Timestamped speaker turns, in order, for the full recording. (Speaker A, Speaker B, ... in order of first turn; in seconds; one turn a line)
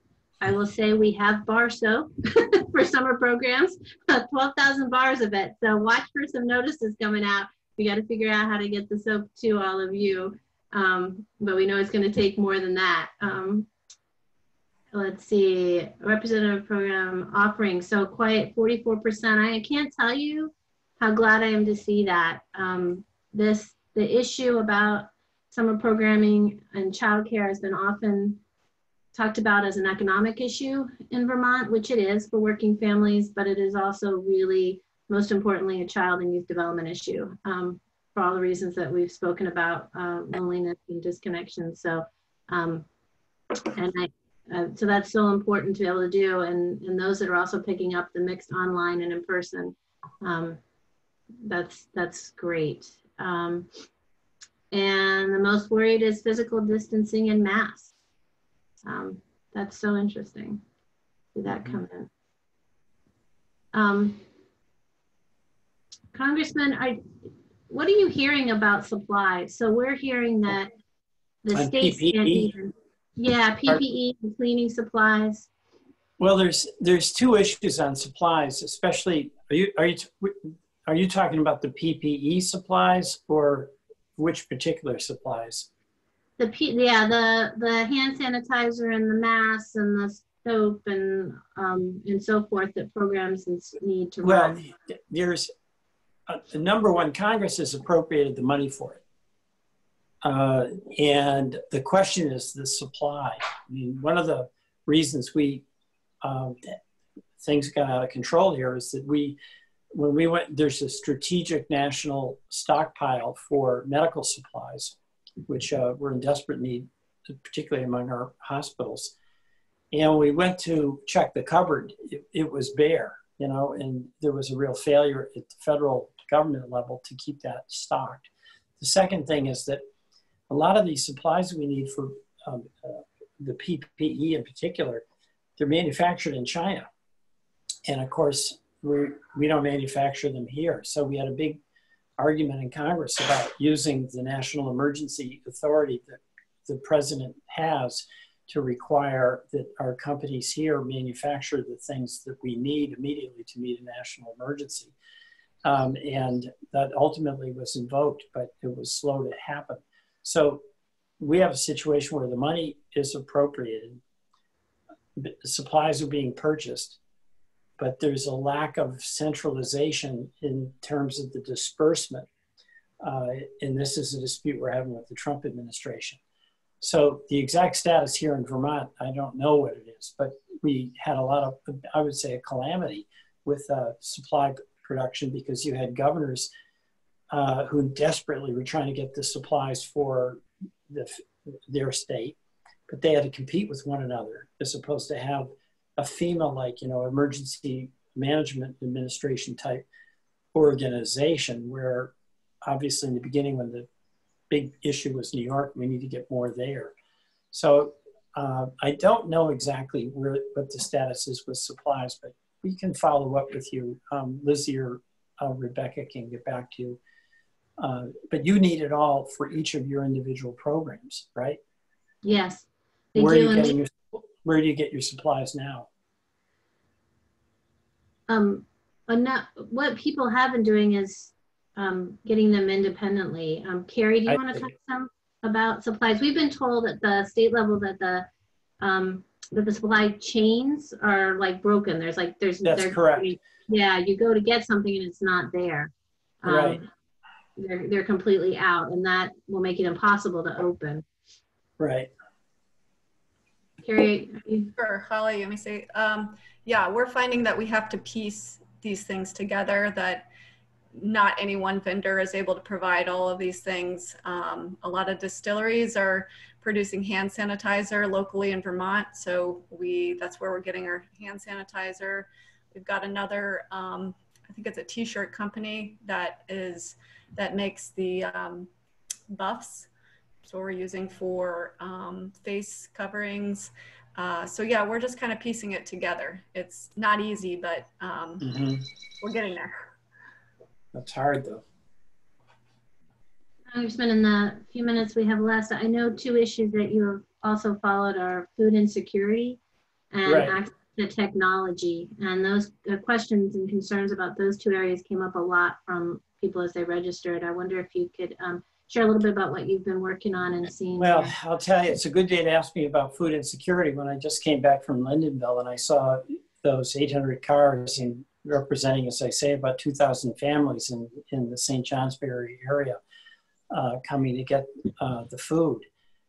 Speaker A: 0.4-13.7
Speaker A: 14.9-28.4
Speaker A: 29.1-42.9
Speaker A: 43.7-50.6
Speaker A: 51.4-53.7
Speaker A: 54.7-57.9
Speaker A: 58.8-60.6
Speaker A: 61.3-62.1
Speaker B: 61.5-61.8
Speaker A: 63.7-64.2
Speaker A: 66.1-67.0
Speaker A: 67.7-70.7
Speaker A: 71.4-75.5
Speaker B: 71.5-72.5
Speaker B: 76.2-85.7
Speaker A: 86.4-94.6
Speaker B: 94.2-95.5
Speaker B: 96.3-99.0
Speaker B: 100.2-105.6
Speaker B: 106.2-106.8
Speaker B: 107.4-109.4
Speaker B: 109.9-115.0
Speaker B: 115.5-119.1
Speaker B: 119.9-129.8
Speaker B: 130.5-135.0
Speaker B: 135.6-136.9
Speaker B: 137.8-141.6
Speaker B: 142.2-154.9
Speaker B: 155.6-160.6
Speaker B: 161.2-164.0
Speaker B: 165.2-167.0
Speaker B: 167.8-172.3
Speaker B: 173.0-176.2
Speaker B: 176.8-186.5
Speaker B: 187.3-192.4
Speaker B: 192.9-199.8
Speaker B: 200.5-202.1
Speaker B: 202.6-203.9
Speaker B: 204.5-206.9
Speaker B: 207.5-217.0
Speaker B: 217.8-221.6
Speaker A: 222.2-223.8
Speaker B: 223.2-225.9
Speaker A: 228.3-238.3
Speaker B: 234.3-234.7
Speaker A: 238.8-246.9
Speaker B: 242.6-243.3
Speaker B: 246.4-246.8
Speaker A: 247.6-251.0
Speaker B: 251.8-252.1
Speaker A: 253.8-254.7
Speaker C: 254.8-260.3
Speaker C: 260.9-278.7
Speaker C: 279.3-279.9
Speaker C: 280.4-288.5
Speaker B: 288.4-288.9
Speaker C: 289.2-289.8
Speaker B: 290.9-291.6
Speaker A: 293.7-299.6
Speaker A: 300.1-311.3
Speaker B: 300.2-300.5
Speaker B: 311.0-323.0
Speaker B: 323.7-325.9